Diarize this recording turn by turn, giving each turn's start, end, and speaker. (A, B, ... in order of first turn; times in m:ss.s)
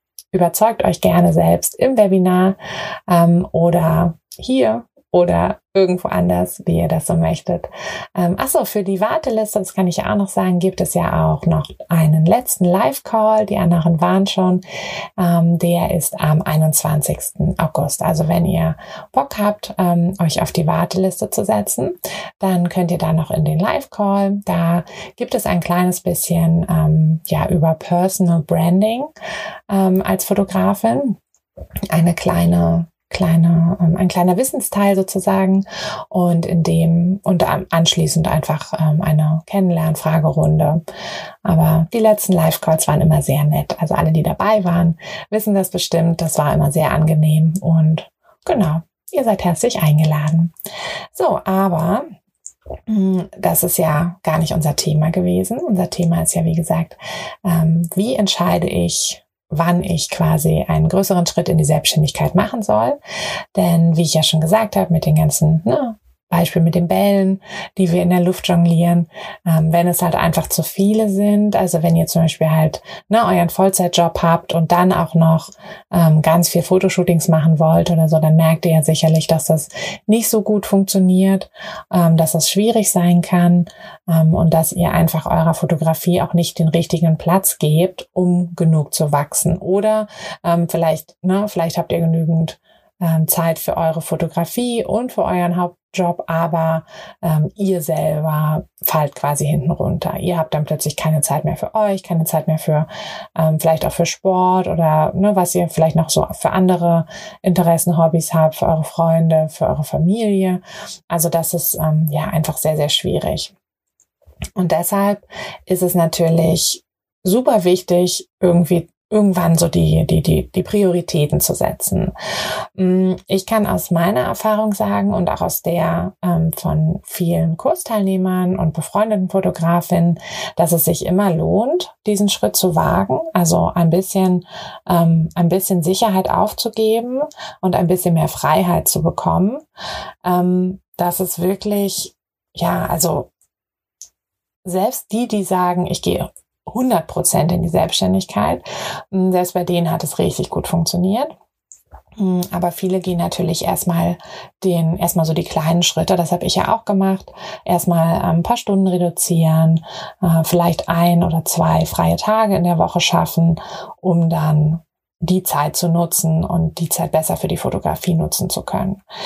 0:00.3-0:02.6 A
0:03.1-0:14.6 A
0:15.2-0:29.1 A
0:29.7-0:31.2 A
0:31.9-0:40.8 A
0:41.4-0:50.5 A
0:51.1-0:52.1 A
0:52.9-1:03.0 A
1:03.6-1:53.5 A
1:54.6-2:02.1 A
2:02.8-2:19.6 A
2:20.2-2:23.3 A
2:24.6-2:31.3 A
2:32.2-2:49.0 A